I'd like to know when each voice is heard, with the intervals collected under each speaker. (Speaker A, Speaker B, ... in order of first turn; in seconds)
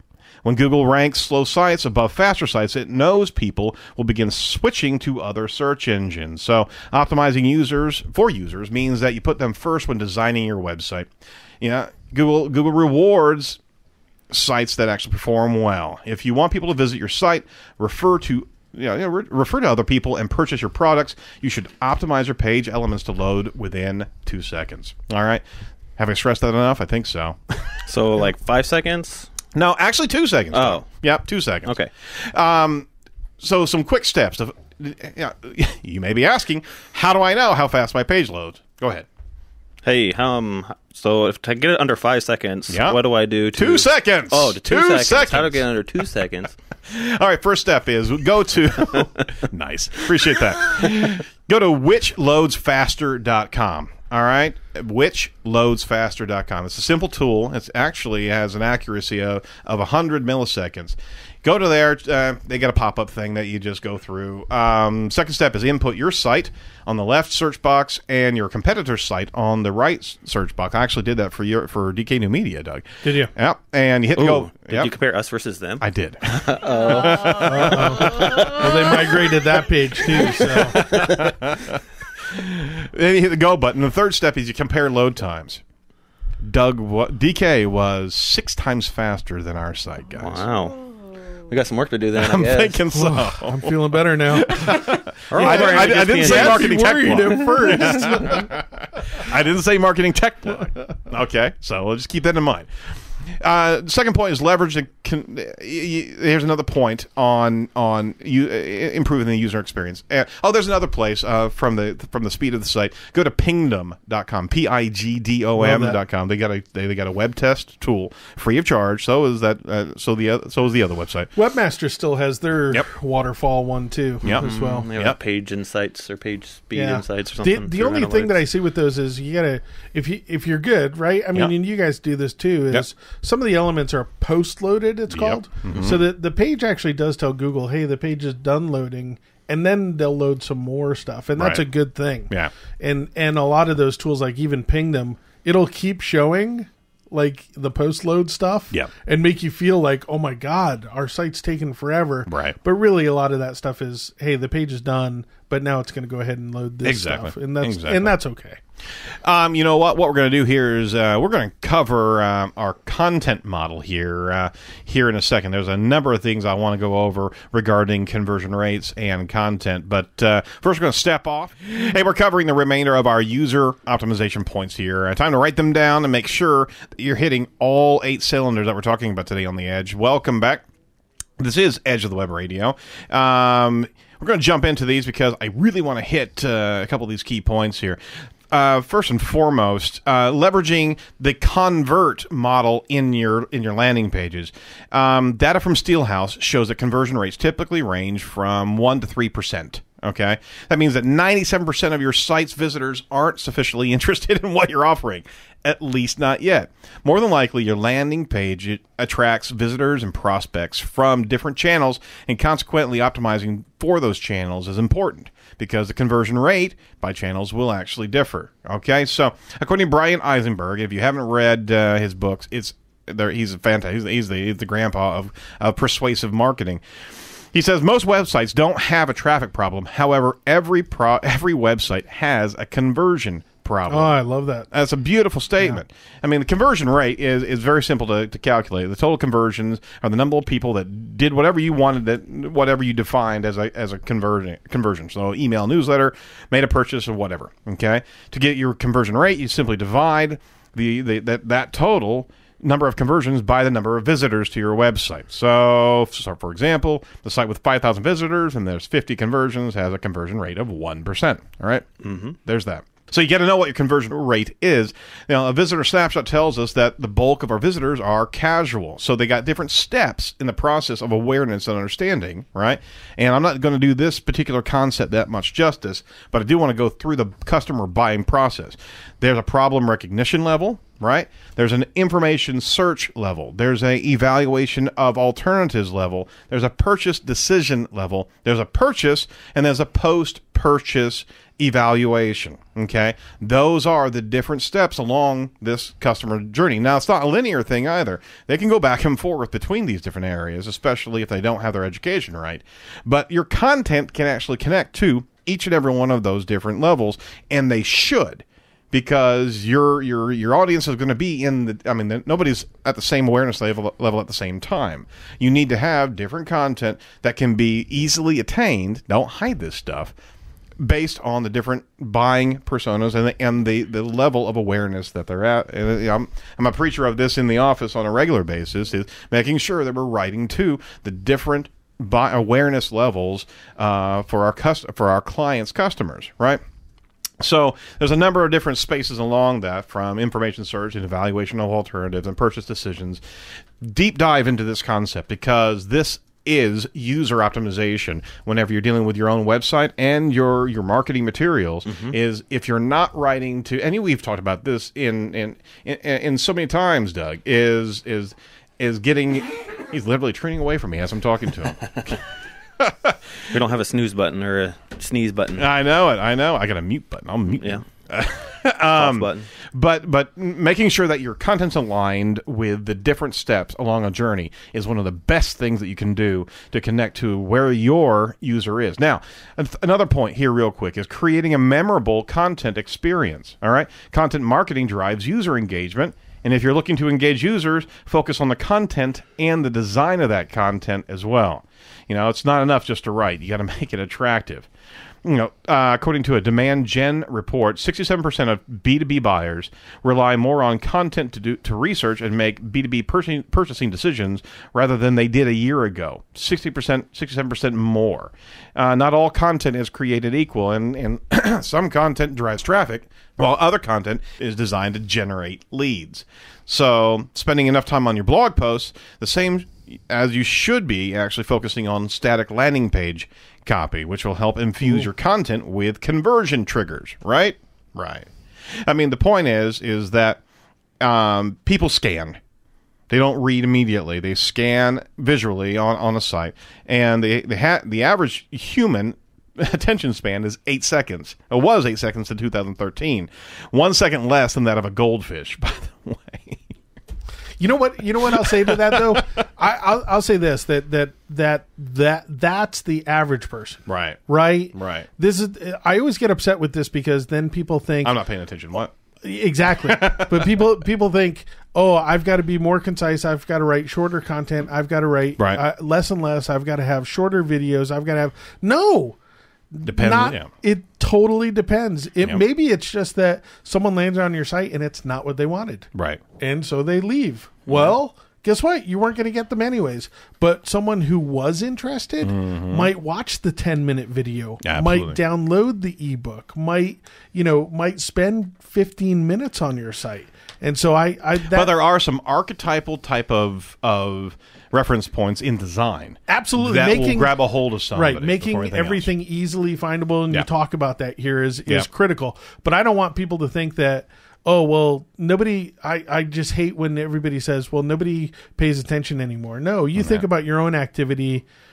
Speaker A: 0.4-11.1, 11.6-13.6, 14.3-25.4, 26.0-27.8, 29.5-32.9, 33.4-39.0, 42.7-43.0, 43.5-45.6, 46.9-74.9, 75.8-79.2, 80.4-85.6, 86.4-90.5, 92.1-102.7, 103.4-121.3, 124.2-125.2, 135.1-136.0, 141.4-141.7, 152.3-152.6, 156.8-158.1, 159.2-180.6, 181.4-188.0, 188.5-226.8, 227.5-234.1, 234.7-320.1, 320.8-336.6, 337.4-343.2, 343.8-362.2, 362.8-363.1, 365.6-394.7, 395.2-428.3, 428.8-430.4, 431.0-432.4, 433.1-446.6, 448.4-448.8, 453.9-454.2, 454.7-455.1, 458.0-458.9, 459.8-460.6, 469.8-470.5, 475.9-476.2, 477.7-477.9, 482.2-482.9, 484.6-485.2, 491.4-499.1, 509.9-510.2
Speaker B: 27.9-29.3, 30.5-30.9, 31.6-31.9, 39.8-46.5, 74.1-78.8, 81.0-81.3, 90.2-90.9, 91.5-92.8, 95.3-97.3, 124.2-128.4, 262.0-262.3, 351.9-352.1, 363.5-365.6, 367.6-367.8, 368.9-369.5
Speaker C: 73.0-73.3, 77.4-81.0, 92.9-94.8, 95.3-98.5, 115.5-116.0, 121.3-124.9, 126.7-158.6, 233.9-234.7, 447.6-458.2, 459.2-469.2, 469.7-475.9, 476.4-491.7, 496.3-497.3, 497.8-511.4